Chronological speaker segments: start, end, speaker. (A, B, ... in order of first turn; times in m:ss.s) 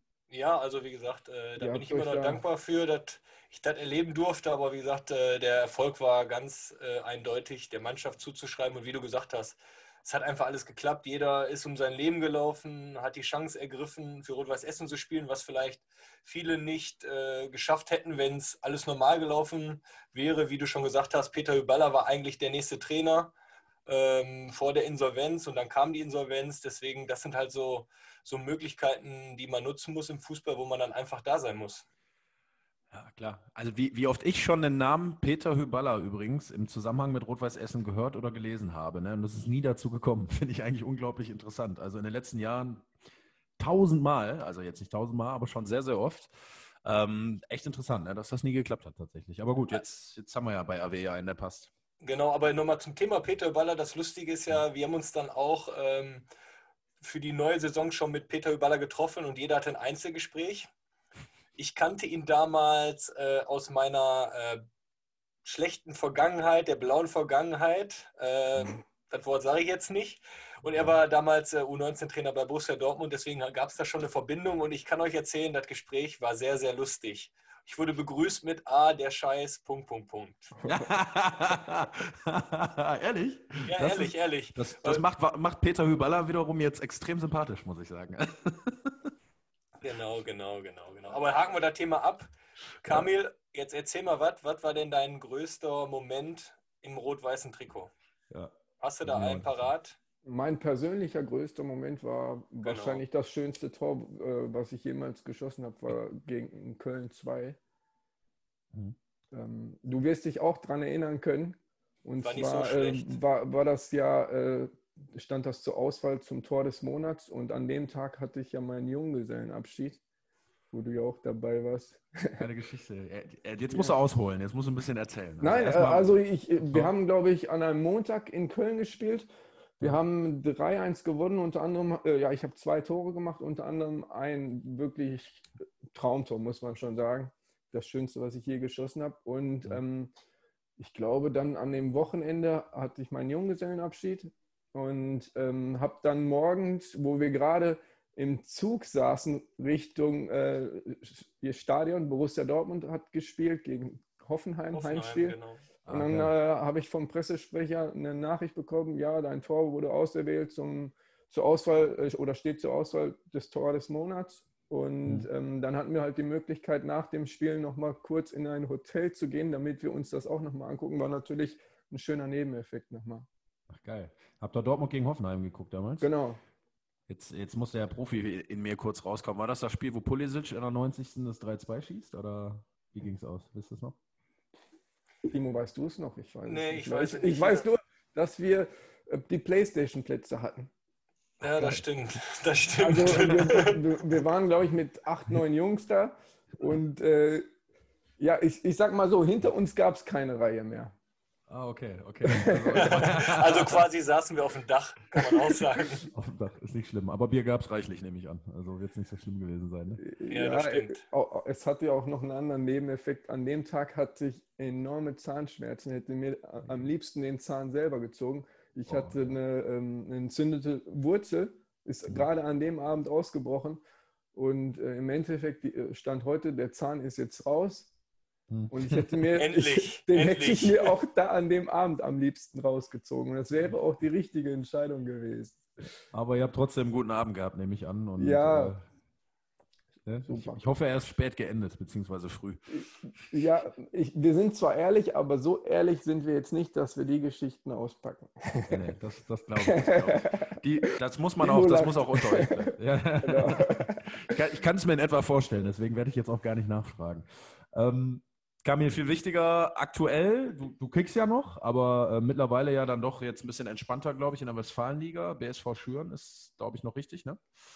0:00.3-0:23.3 A
0:01.6-0:02.4 B
0:23.9-0:31.8 A
0:32.9-0:42.9 C
0:43.6-0:46.3 C
0:46.8-0:51.7 C
0:52.0-0:56.3 A
0:57.0-1:00.7 A
1:01.6-1:04.6 A
1:05.4-1:20.6 A
1:20.7-1:29.1 C
1:23.7-1:25.0 A
1:29.8-1:32.3 A
1:32.8-1:37.9 A
1:38.8-1:40.0 A
1:39.1-1:39.6 C
1:40.2-1:47.6 B
1:42.6-1:43.0 A
1:49.3-2:00.0 B
1:52.2-1:53.2 A
2:00.7-2:02.4 B
2:02.4-2:06.9 C
2:05.4-2:09.3 B
2:09.8-2:20.1 B
2:20.8-2:35.4 B
2:34.7-2:35.6 A
2:35.9-2:36.3 C
2:35.9-2:53.3 B
2:53.7-2:56.1 C
2:56.0-2:56.4 B
2:57.1-3:04.0 C
3:05.3-3:10.7 B
3:06.5-3:07.7 A
3:11.4-3:13.8 A
3:12.8-3:17.5 B
3:18.2-3:21.0 B
3:21.5-3:23.8 C
3:22.2-3:23.0 B
3:22.8-3:26.1 A
3:26.1-3:30.0 C
3:30.0-3:43.8 B
3:30.3-3:31.0 A
3:38.9-3:39.2 C
3:44.3-3:47.9 B
3:48.5-3:49.2 C
3:48.7-3:55.9 B
3:49.4-3:51.0 A
3:56.1-3:58.8 C
3:58.2-3:58.8 B
4:00.0-4:02.7 C
4:00.2-4:00.6 B
4:02.7-4:08.8 B
4:08.7-4:27.4 C
4:09.6-4:14.4 B